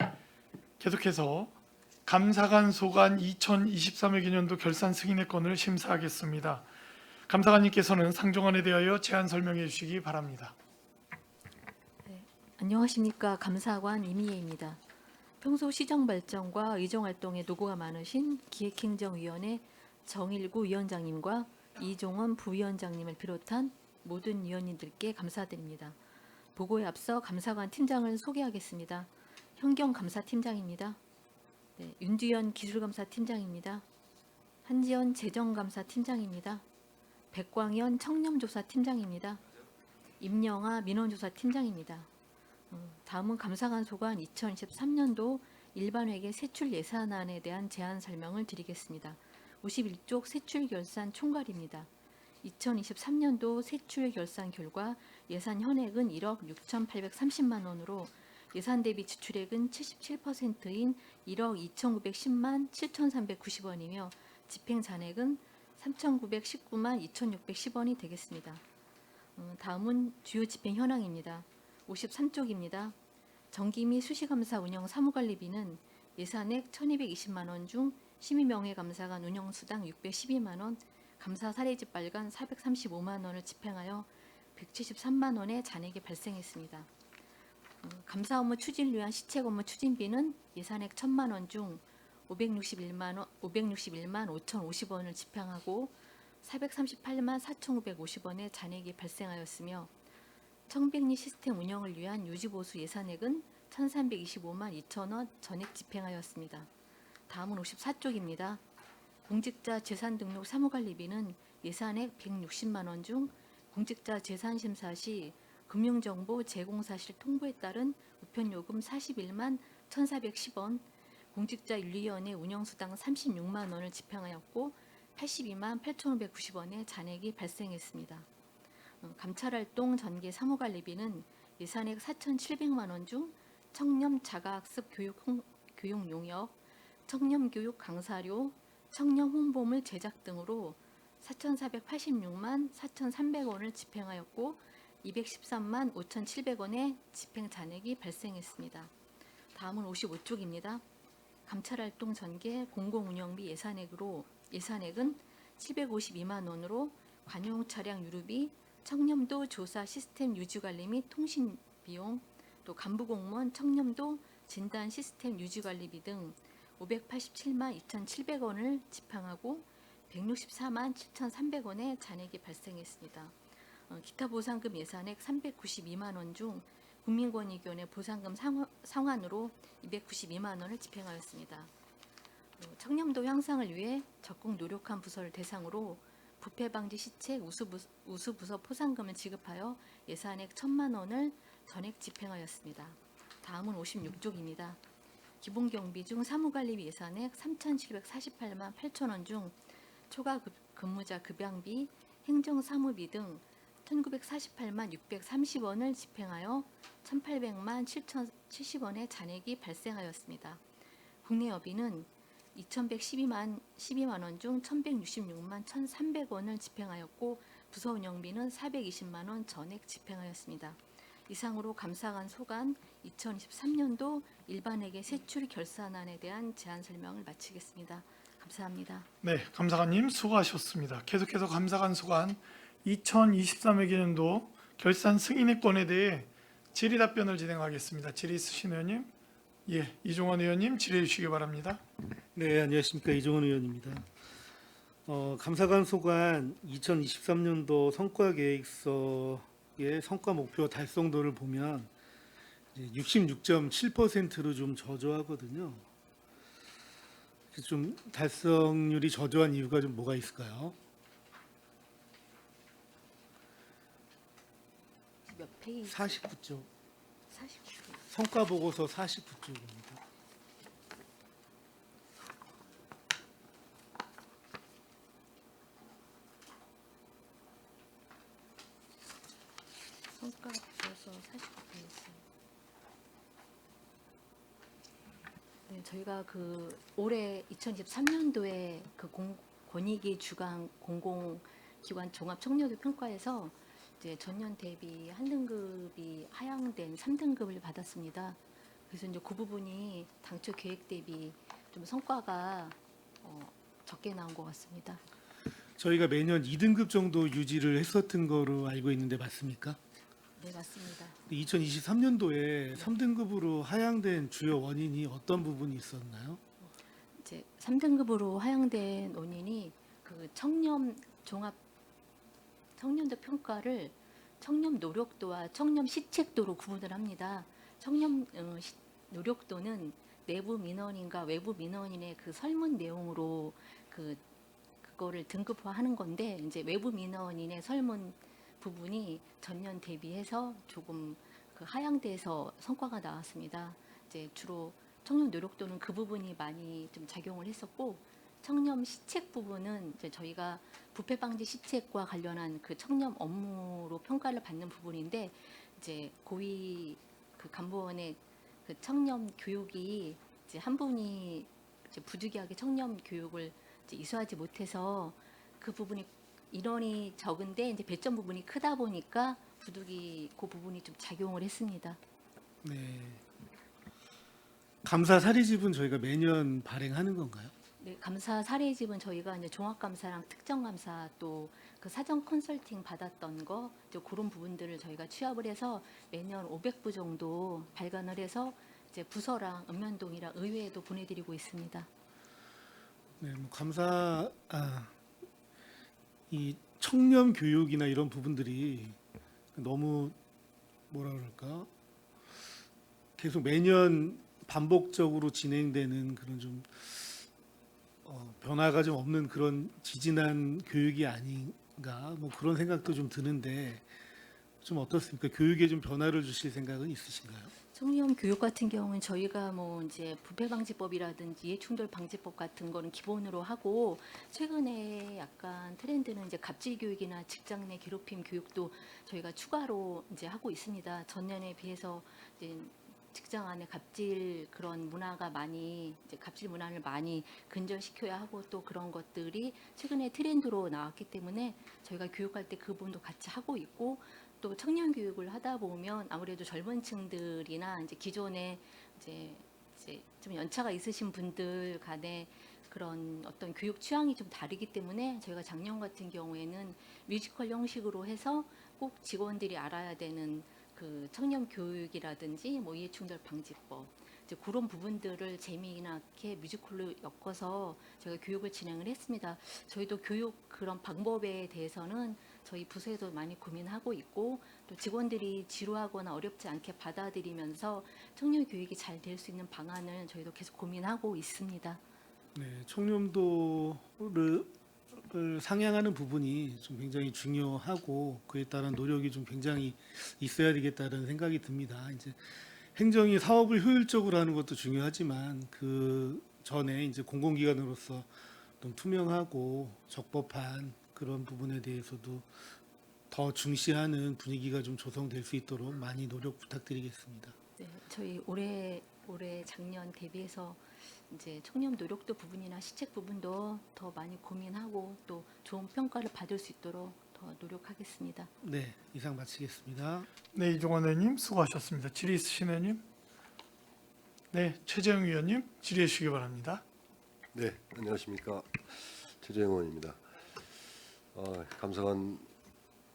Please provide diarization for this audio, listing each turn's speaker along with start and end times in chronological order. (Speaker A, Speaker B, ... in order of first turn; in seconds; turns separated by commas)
Speaker A: 0.8-1.5, Speaker A: 2.0-6.7, Speaker A: 7.3-10.5, Speaker B: 12.0-14.8, Speaker B: 15.4-26.0, Speaker B: 26.5-31.0, Speaker B: 31.8-33.8, Speaker B: 34.6-36.6, Speaker B: 37.3-39.4, Speaker B: 40.2-42.1, Speaker B: 42.7-51.9, Speaker B: 52.4-68.6, Speaker B: 69.3-72.9, Speaker B: 73.5-86.9, Speaker B: 87.8-99.9, Speaker B: 100.7-106.7, Speaker B: 107.3-108.6, Speaker B: 109.2-128.3, Speaker B: 129.0-136.5, Speaker B: 137.1-148.9, Speaker B: 149.5-150.8, Speaker B: 151.4-173.4, Speaker B: 173.9-181.7, Speaker B: 182.6-194.8, Speaker B: 195.4-210.6, Speaker B: 211.2-229.1, Speaker A: 229.2-239.1, Speaker A: 239.7-241.8, Speaker C: 242.3-244.0, Speaker C: 245.1-251.9, Speaker C: 252.7-255.8, Speaker C: 257.5-260.8, Speaker B: 265.3-266.1, Speaker C: 265.9-266.7, Speaker B: 267.3-268.0, Speaker C: 268.1-270.0, Speaker B: 280.1-282.2, Speaker B: 285.7-305.0, Speaker C: 305.8-309.8, Speaker B: 310.4-311.2, Speaker C: 311.3-316.4, Speaker B: 316.6-321.6, Speaker B: 322.8-334.2, Speaker B: 334.8-372.0, Speaker C: 372.6-373.2, Speaker C: 374.8-377.5, Speaker B: 377.8-391.9, Speaker C: 393.2-394.9, Speaker C: 396.3-399.0, Speaker C: 399.5-400.1, Speaker C: 400.9-401.7, Speaker C: 403.2-407.2, Speaker C: 408.0-413.9, Speaker C: 414.6-417.5, Speaker B: 417.7-481.8, Speaker C: 482.3-498.1, Speaker C: 498.6-502.4, Speaker C: 503.1-507.3, Speaker B: 507.6-518.3, Speaker C: 518.4-520.1, Speaker A: 520.3-522.8, Speaker A: 524.3-526.6, Speaker D: 527.3-530.0, Speaker D: 531.1-532.3